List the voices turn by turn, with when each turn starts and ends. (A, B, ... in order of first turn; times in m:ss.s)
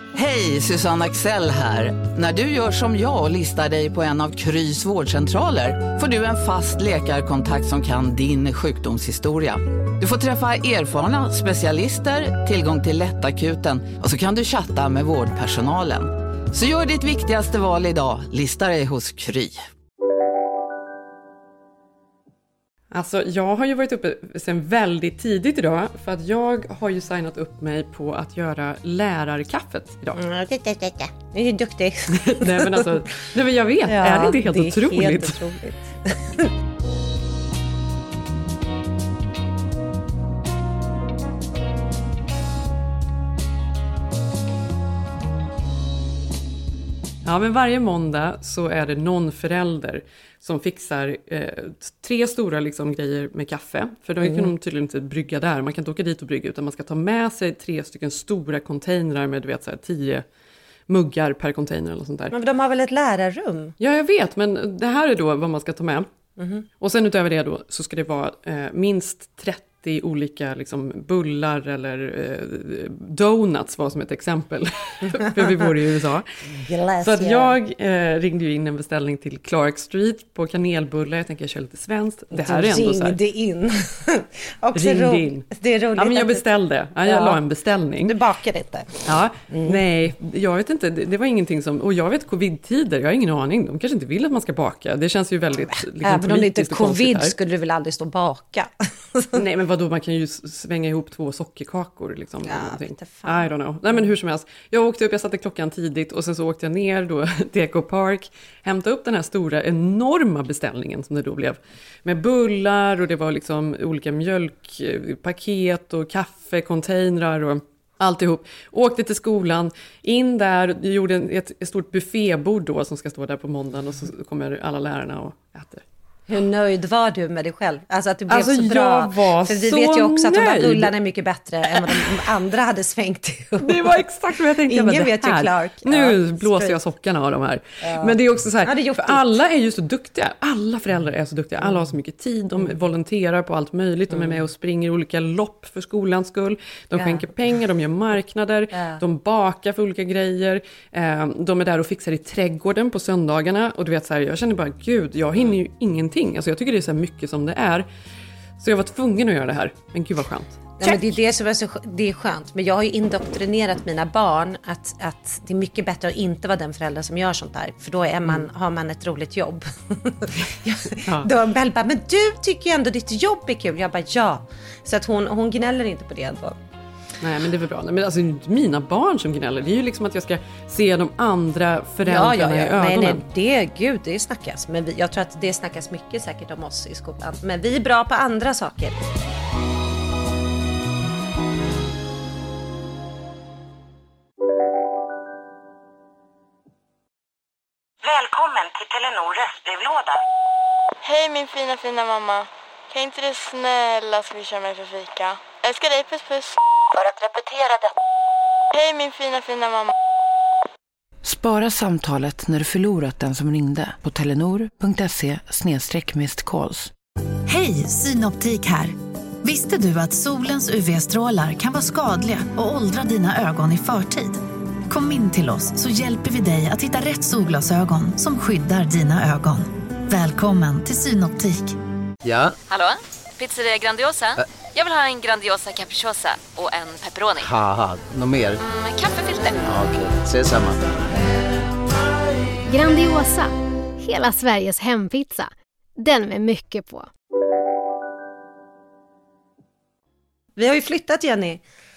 0:00.1-0:19.6 A
0:22.9-0:30.2 B
0:30.1-0:33.0 C
0:32.1-0:35.4 B
0:33.8-0:36.5 C
0:47.2-1:00.2 B
0:54.2-0:54.5 C
1:00.9-1:02.3 B
1:02.3-1:03.8 C
1:03.8-1:06.1 B
1:06.4-1:06.7 C
1:06.8-1:16.2 B
1:15.3-1:15.6 C
1:16.5-1:17.6 C
1:17.0-1:23.2 B
1:22.3-1:26.4 C
1:24.7-1:25.4 B
1:26.0-1:28.2 B
1:27.0-1:27.4 C
1:28.0-1:29.0 C
1:29.0-1:37.3 B
1:29.5-1:29.8 C
1:35.7-1:39.4 C
1:39.3-2:05.8 B
1:42.4-1:43.5 C
2:06.3-2:14.0 C
2:08.3-2:10.9 B
2:13.6-2:37.9 B
2:14.7-2:16.8 C
2:17.8-2:19.3 C
2:21.6-2:21.9 C
2:24.1-2:24.4 C
2:26.9-2:27.2 C
2:28.7-2:29.0 C
2:38.6-2:41.0 B
2:40.8-2:56.6 C
2:57.2-3:03.2 B
3:02.0-3:09.0 C
3:18.0-3:20.2 D
3:21.0-3:26.6 E
3:26.9-3:27.9 D
3:28.7-3:29.9 E
3:31.2-3:36.9 F
3:37.5-3:51.8 G
3:52.2-3:52.6 H
3:52.6-3:57.5 I
3:57.4-3:58.6 H
3:58.6-3:59.7 I
3:59.7-4:00.8 H
4:02.7-4:07.1 J
4:10.6-4:11.6 C